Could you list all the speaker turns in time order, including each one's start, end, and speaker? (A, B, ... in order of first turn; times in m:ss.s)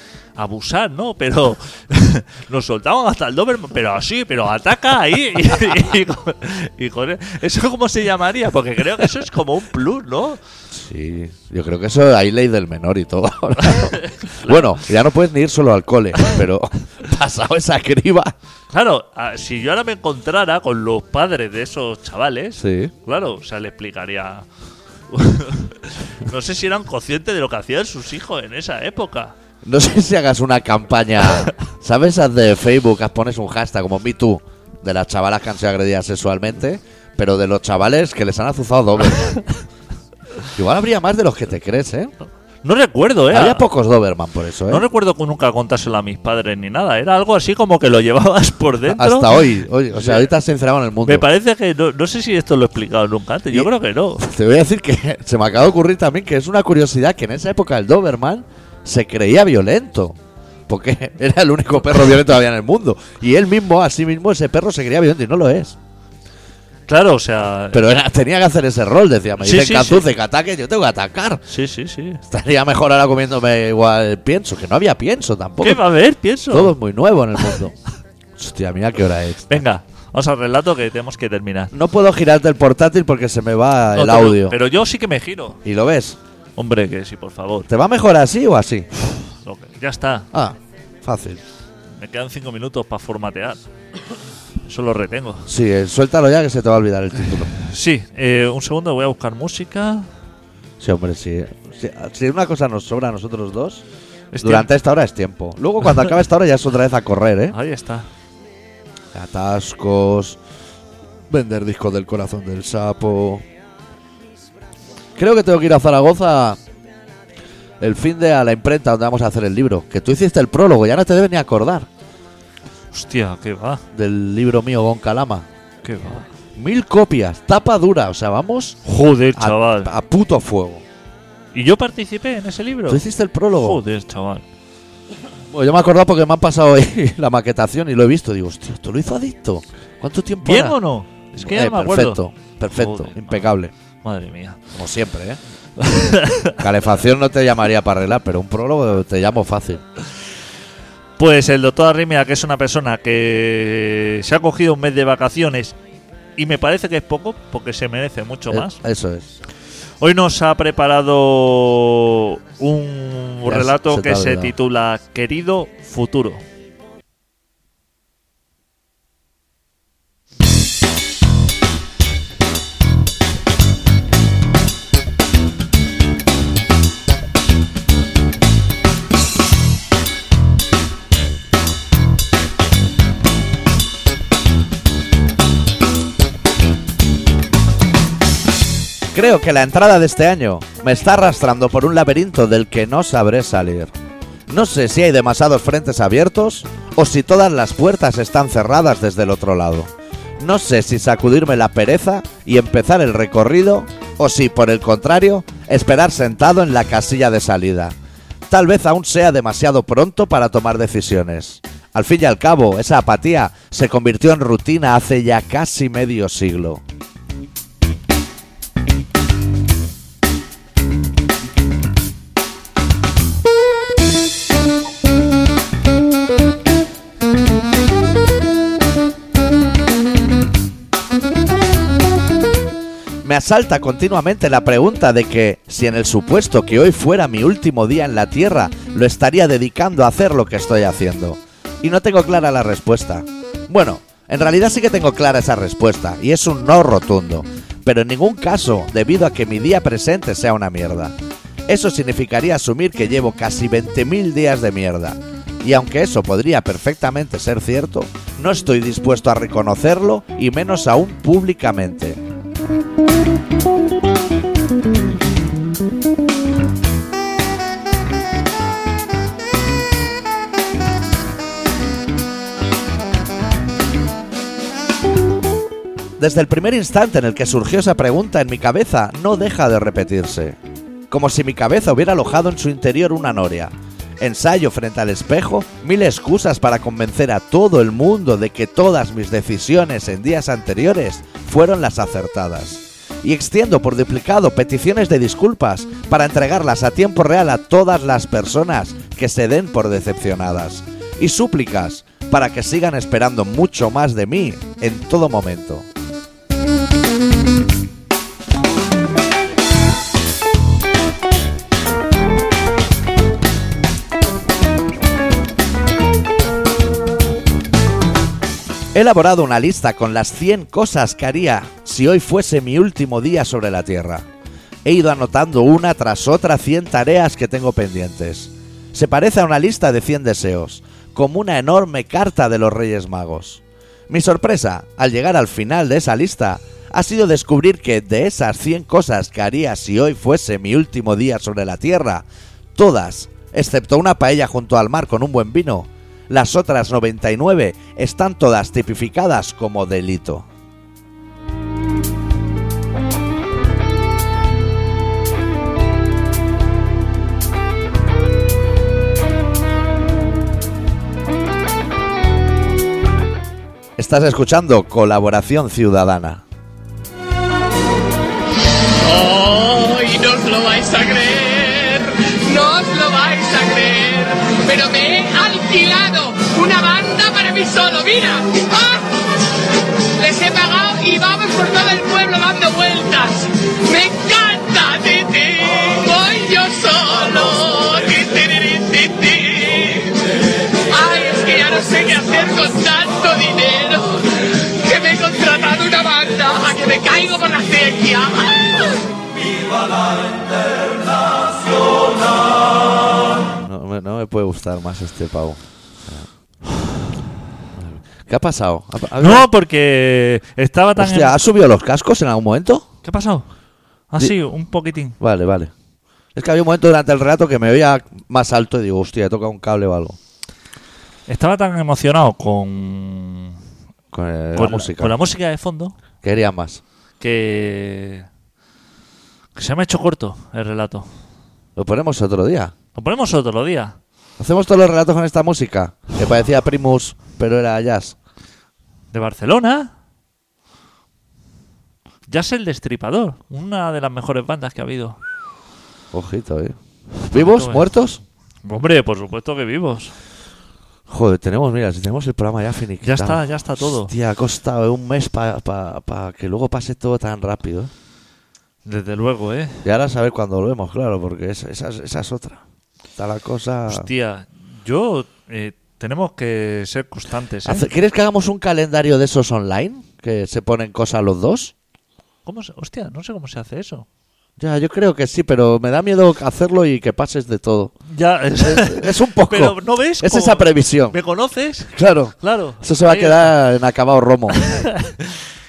0:00.4-0:10.4 A
0:10.7-0:18.3 B
0:13.6-0:14.8 A
0:18.7-0:24.4 A
0:22.6-0:22.9 B
0:25.1-0:29.3 A
0:29.6-0:39.4 B
0:40.5-0:42.1 B
0:42.6-0:43.6 A
0:43.3-0:44.8 B
0:44.7-0:50.3 A
0:48.9-0:51.3 B
0:51.0-0:54.2 A
0:53.5-1:00.2 B
1:00.7-1:05.8 B
1:06.9-1:07.8 A
1:07.7-1:11.4 B
1:09.4-1:10.0 A
1:11.5-1:12.2 A
1:12.2-1:15.8 B
1:15.6-1:16.7 A
1:16.5-1:17.7 B
1:18.4-1:19.6 B
1:19.5-1:21.7 A
1:21.7-1:24.6 B
1:23.9-1:25.6 A
1:25.6-1:26.2 B
1:26.6-1:27.7 A
1:27.7-1:28.9 B
1:29.4-1:30.3 A
1:30.3-1:31.4 B
1:32.0-1:33.6 A
1:34.6-1:35.5 A
1:35.5-1:37.5 B
1:37.5-1:40.1 A
1:40.8-1:43.8 B
1:44.3-1:44.7 A
1:44.4-1:47.6 B
1:47.5-1:48.1 A
1:49.1-1:50.4 B
1:51.3-1:53.4 B
1:55.2-1:56.6 B
1:57.8-2:01.9 B
2:02.9-2:03.8 A
2:03.9-2:05.4 B
2:05.8-2:06.2 A
2:06.6-2:08.8 B
2:08.8-2:09.9 A
2:09.3-2:10.8 B
2:11.5-2:13.0 A
2:12.9-2:13.8 B
2:13.6-2:14.4 A
2:15.5-2:20.8 B
2:20.4-2:23.5 A
2:21.4-2:23.7 B
2:24.0-2:24.6 A
2:24.7-2:25.4 B
2:25.8-2:26.6 A
2:26.6-2:29.8 B
2:31.2-2:35.8 A
2:36.4-2:38.8 A
2:38.5-2:39.3 B
2:40.0-2:46.4 A
2:43.4-2:44.5 B
3:09.1-3:13.9 B
3:14.5-3:27.9 B
3:28.5-3:36.8 B
3:53.2-4:11.1 B
4:11.7-4:22.2 B
4:36.2-4:40.6 B
4:41.1-5:05.9 B
5:18.9-5:24.3 B
5:24.8-5:50.4 B
6:04.0-6:06.4 B
6:09.0-6:19.1 C
6:20.2-6:39.0 C
6:43.6-6:46.3 B
6:47.7-6:49.4 B
6:49.2-6:51.4 A
6:51.0-6:52.9 B
6:53.0-6:53.5 A
6:54.1-6:55.2 A
6:55.2-6:55.7 B
6:56.3-7:00.2 B
7:01.3-7:03.6 A
7:04.1-7:05.2 B
7:04.5-7:06.0 A
7:06.2-7:06.8 B
7:07.2-7:08.3 A
7:09.5-7:11.1 A
7:11.8-7:12.7 B
7:12.9-7:14.0 A
7:14.4-7:18.2 B
7:19.1-7:19.9 A
7:22.3-7:25.2 A
7:26.1-7:26.8 B
7:27.3-7:28.2 B
7:27.3-7:27.9 A
7:28.6-7:30.1 A
7:31.1-7:37.9 B
7:33.0-7:34.1 A
7:38.8-7:39.9 A
7:39.8-7:42.6 B
7:43.2-7:44.1 B
7:43.9-7:47.8 A
7:47.6-7:51.7 B
7:52.4-7:54.0 A
7:54.6-7:57.9 B
7:58.1-8:03.5 A
7:58.6-8:01.2 B
8:01.9-8:04.8 B
8:04.5-8:05.4 A